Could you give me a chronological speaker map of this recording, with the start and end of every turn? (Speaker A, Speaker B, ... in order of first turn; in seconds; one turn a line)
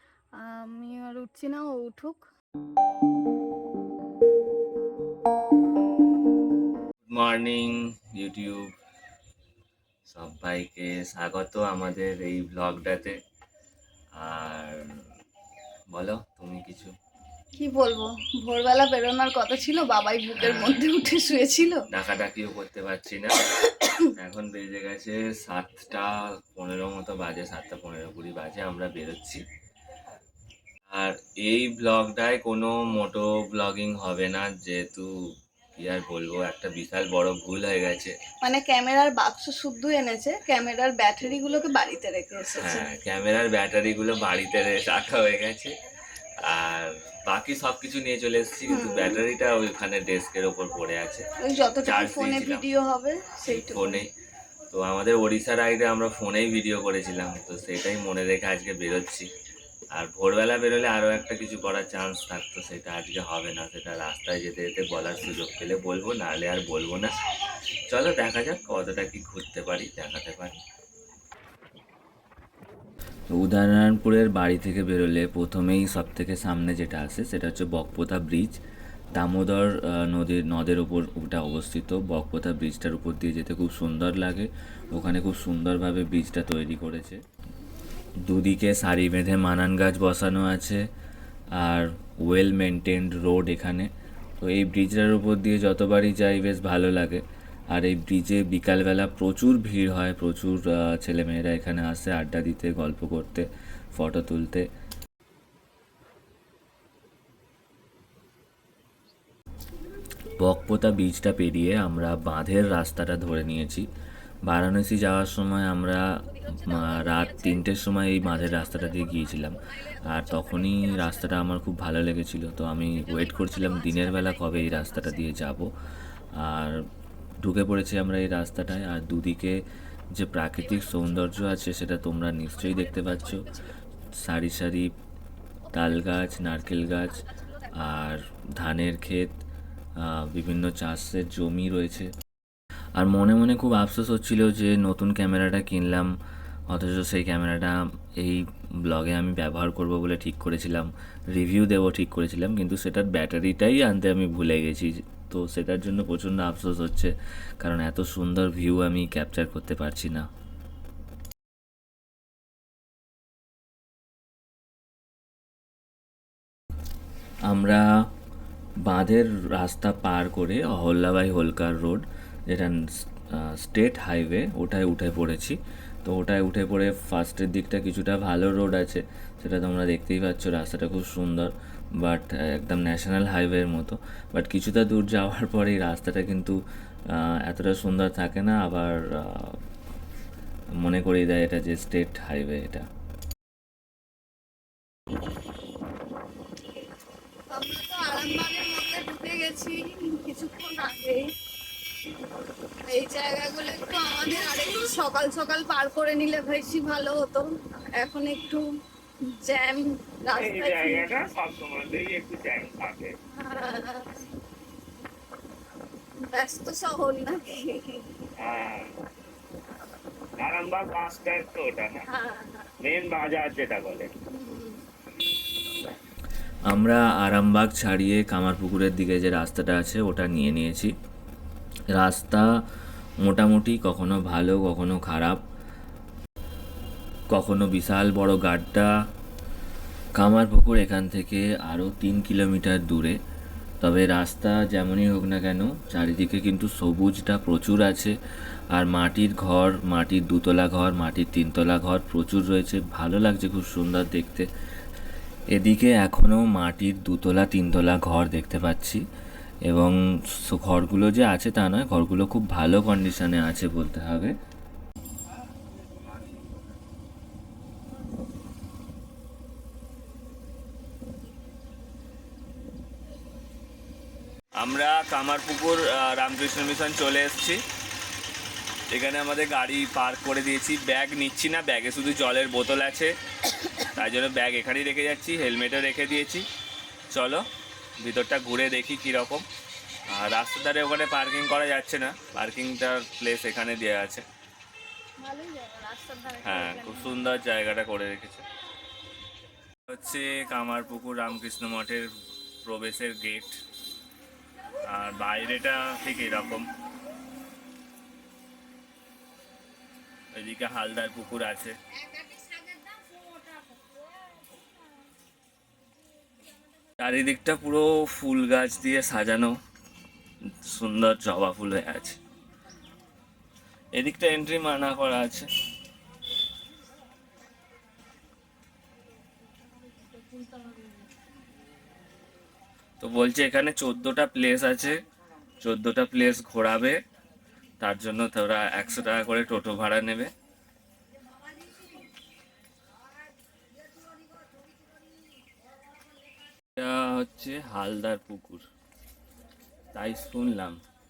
Speaker A: 0.4-2.2
Speaker B: 7.1-8.7
Speaker B: 10.1-13.2
Speaker B: 14.2-14.9
Speaker B: 15.9-16.9
Speaker A: 17.6-21.8
Speaker B: 20.4-20.8
Speaker B: 21.9-23.4
Speaker B: 24.1-29.4
Speaker B: 30.9-35.1
Speaker B: 35.8-38.1
Speaker A: 38.4-42.9
Speaker B: 42.6-45.7
Speaker B: 46.5-51.2
Speaker A: 48.7-49.2
Speaker A: 51.4-54.0
Speaker B: 51.8-52.6
Speaker B: 53.5-54.1
Speaker B: 54.7-59.3
Speaker B: 59.9-67.1
Speaker B: 67.9-70.6
Speaker B: 73.3-78.6
Speaker B: 79.1-87.2
Speaker B: 88.2-90.8
Speaker B: 91.6-93.9
Speaker B: 94.4-104.7
Speaker B: 110.4-113.8
Speaker B: 114.5-125.7
Speaker B: 126.3-126.8
Speaker B: 127.4-129.6
Speaker B: 130.1-133.6
Speaker B: 134.2-134.9
Speaker B: 135.7-139.4
Speaker B: 140.0-142.1
Speaker B: 142.9-146.1
Speaker B: 146.7-160.2
Speaker B: 167.5-167.8
Speaker B: 168.8-186.6
Speaker B: 187.1-189.6
Speaker B: 190.8-192.8
Speaker A: 197.5-201.2
Speaker A: 202.9-207.4
Speaker A: 208.0-208.6
Speaker A: 209.3-211.2
Speaker C: 210.3-213.1
Speaker A: 213.4-214.2
Speaker A: 216.2-218.0
Speaker C: 218.4-218.9
Speaker C: 220.4-222.0
Speaker A: 222.1-222.7
Speaker C: 222.8-224.1
Speaker B: 226.7-230.9
Speaker B: 231.9-232.5
Speaker B: 233.2-235.4
Speaker B: 237.3-238.9
Speaker B: 240.2-243.2
Speaker B: 243.8-248.1
Speaker B: 248.7-254.5
Speaker B: 255.5-259.0
Speaker B: 259.7-264.3
Speaker B: 274.6-277.6
Speaker B: 278.9-283.1
Speaker B: 283.8-286.4
Speaker B: 287.1-287.4
Speaker B: 288.0-289.4
Speaker B: 290.1-294.2
Speaker A: 295.2-297.3
Speaker B: 296.4-298.4
Speaker B: 299.9-302.1
Speaker B: 302.6-303.6
Speaker B: 304.9-306.6
Speaker B: 310.3-311.8
Speaker B: 317.0-319.6
Speaker B: 320.5-322.2
Speaker B: 323.9-325.5
Speaker B: 333.0-335.0
Speaker B: 335.6-337.0
Speaker B: 337.8-340.3
Speaker B: 346.8-348.6
Speaker B: 349.9-350.8